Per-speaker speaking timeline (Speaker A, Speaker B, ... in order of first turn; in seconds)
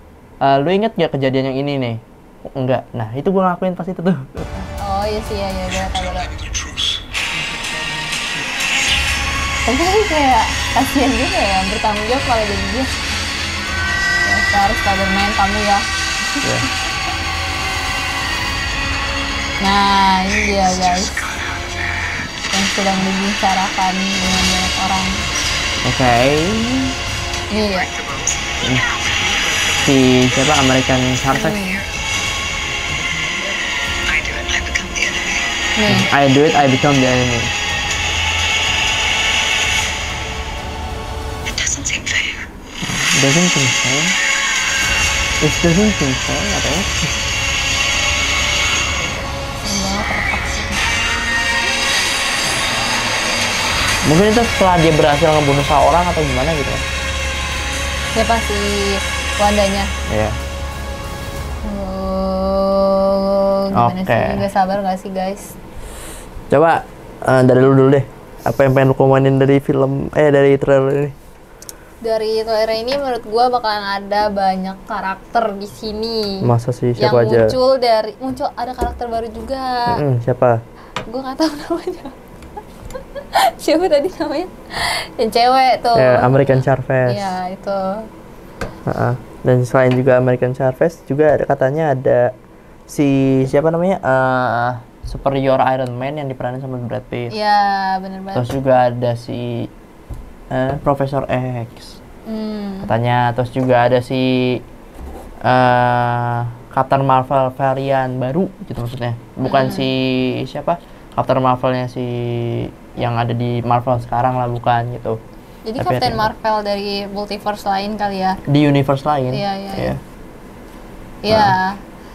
Speaker A: 0.4-4.7, 25.8-26.9, 28.6-28.9, 29.8-31.6, 35.9-37.5, 42.8-44.2, 45.4-47.1, 54.1-56.8, 60.1-60.4, 63.7-64.4, 66.5-71.1, 76.4-77.5, 79.9-80.6, 86.0-87.3, 88.9-92.3, 92.9-97.3, 98.3-99.7, 100.5-102.0, 102.8-104.6, 105.4-115.2, 115.8-116.3, 118.5-120.0, 121.3-121.6
Speaker B: 4.8-6.4, 9.7-12.9, 14.2-16.7, 19.6-21.4, 22.5-25.2, 27.5-28.0, 31.3-31.9, 35.8-36.1, 49.6-50.9, 58.1-59.9, 61.6-65.5, 72.0-80.0, 81.1-82.1, 83.2-88.0, 97.3-98.5, 102.3-102.9, 109.4-109.9, 115.7-118.4, 119.3-120.0, 121.2-121.8
Speaker C: 34.1-35.3, 41.5-42.4